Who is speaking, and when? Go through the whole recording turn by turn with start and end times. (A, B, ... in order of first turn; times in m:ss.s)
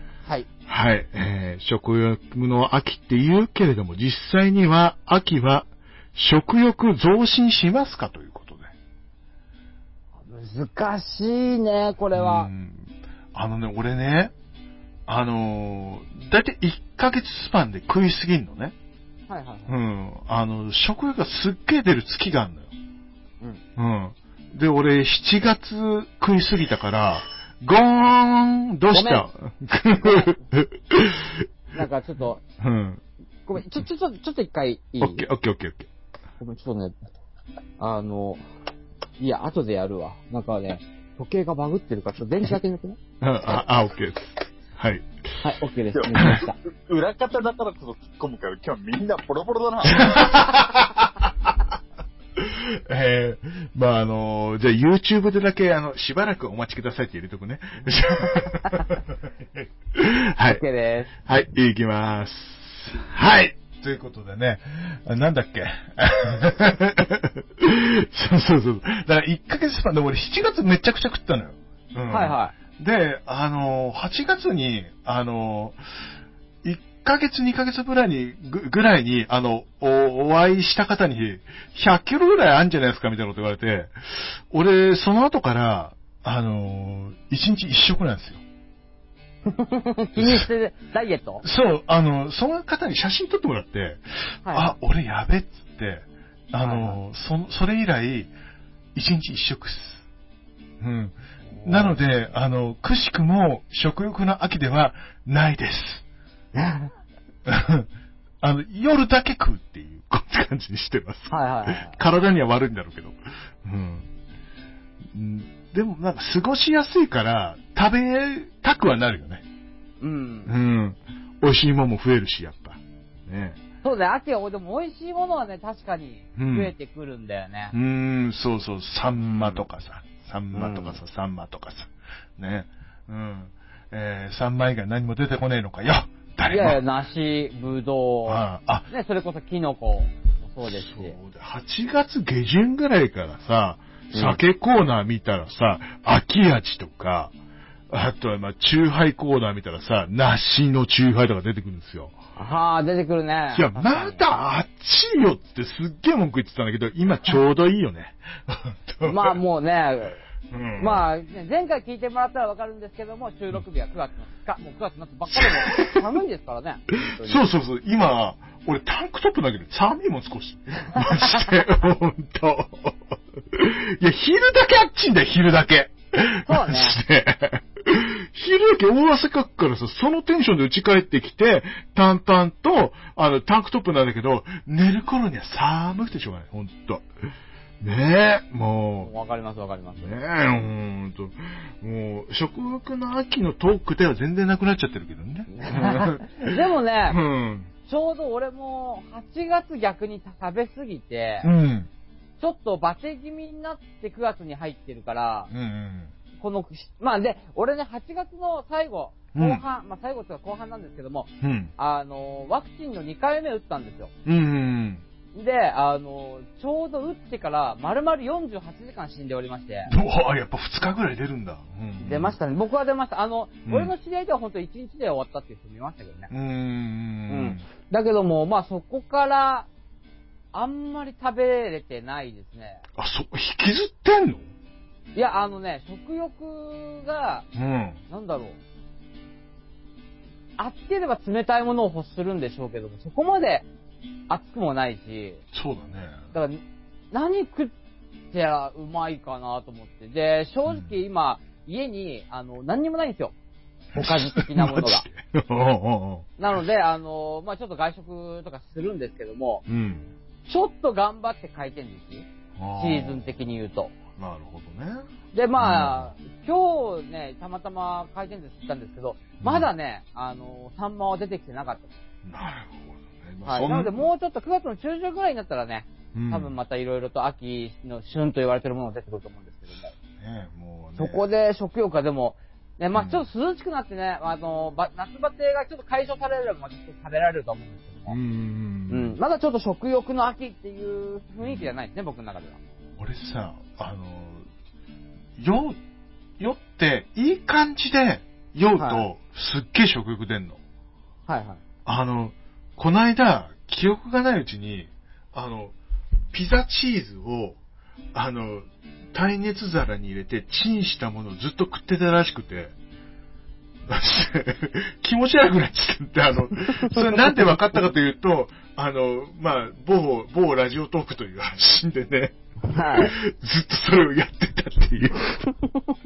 0:00.7-0:08.7 A
0:10.2-0:12.5 B
0:12.2-0:14.3 A
0:15.1-0:18.7 A
0:19.3-0:19.8 B
0:19.7-0:22.7 A
0:23.8-0:31.5 A
0:28.9-0:29.3 B
0:30.0-0:30.4 B
0:31.8-0:32.4 B
0:32.6-0:33.0 A
0:33.5-0:35.3 B
0:35.0-0:35.9 A
0:36.4-0:37.0 B
0:37.8-0:38.4 B
0:39.2-0:43.0 B
0:43.2-0:45.1 A
0:45.4-0:46.6 B
0:46.0-0:50.2 C
0:49.9-0:51.5 A
0:52.4-0:59.0 A
0:57.8-0:58.8 B
0:59.5-1:00.6 A
1:00.5-1:01.1 B
1:01.2-1:15.8 A
1:12.1-1:12.5 B
1:16.6-1:28.4 A
1:29.5-1:31.4 B
1:30.2-1:30.5 A
1:31.4-1:38.3 A
1:34.5-1:34.7 B
1:36.6-1:37.0 B
1:39.0-1:40.0 A
1:40.8-1:46.0 A
1:41.5-1:42.0 B
1:46.5-1:46.9 B
1:47.5-1:47.9 A
1:48.4-1:54.1 A
1:51.3-1:52.0 B
1:55.1-1:59.4 A
2:00.0-2:00.5 B
2:00.5-2:03.6 A
2:03.8-2:07.7 B
2:06.4-2:06.7 A
2:07.7-2:16.8 A
2:09.3-2:09.6 B
2:10.5-2:11.0 B
2:16.5-2:21.2 B
2:18.2-2:18.9 A
2:20.6-2:27.3 A
2:24.1-2:24.4 B
2:27.9-2:32.1 A
2:32.4-2:34.2 B
2:33.5-2:39.4 A
2:39.0-2:40.2 B
2:40.5-2:41.0 A
2:40.8-2:47.4 B
2:45.3-2:46.0 A
2:46.9-3:07.1 A
2:56.5-2:57.0 B
3:07.8-3:09.1 A
3:09.0-3:10.1 B
3:10.0-3:16.5 A
3:15.5-3:17.2 B
3:17.1-3:17.7 A
3:17.9-3:21.5 B
3:21.4-3:21.9 A
3:22.4-3:25.5 B
3:25.5-3:26.1 A
3:26.4-3:34.1 B
3:29.3-3:29.6 A
3:31.4-3:31.7 A
3:34.3-3:35.0 A
3:35.3-3:39.9 B
3:39.9-3:42.4 A
3:42.0-3:46.3 B
3:43.7-3:43.9 A
3:46.3-3:47.6 A
3:47.3-3:49.7 B
3:50.5-3:52.8 B
3:53.0-3:54.5 A
3:55.2-3:57.5 B
3:57.6-3:58.0 A
3:58.1-3:58.6 B
4:00.6-4:03.7 B
4:04.3-4:05.4 B
4:05.5-4:06.2 A
4:06.3-4:06.6 B
4:07.1-4:07.7 B
4:08.3-4:13.3 B
4:10.7-4:11.0 A
4:14.0-4:16.4 A
4:14.0-4:15.1 B
4:16.4-4:19.6 B
4:19.7-4:20.1 A
4:20.5-4:23.9 B
4:22.6-4:23.3 A
4:24.2-4:25.1 A
4:25.3-4:31.9 B
4:25.6-4:26.1 A
4:29.4-4:29.7 A
4:32.2-4:34.1 A
4:33.5-4:39.9 B
4:36.1-4:36.5 A
4:40.2-4:41.2 A
4:41.0-4:48.2 B
4:43.0-4:43.2 A
4:48.1-4:49.2 A
4:48.9-4:52.6 B
4:51.4-4:51.7 A
4:53.0-4:54.4 A
4:55.4-4:55.8 A
4:56.4-5:00.6 A
4:58.8-4:59.0 B
5:01.3-5:01.6 B
5:01.9-5:05.7 A
5:06.3-5:07.6 A
5:08.1-5:12.7 A
5:13.9-5:25.5 A
5:22.7-5:23.1 B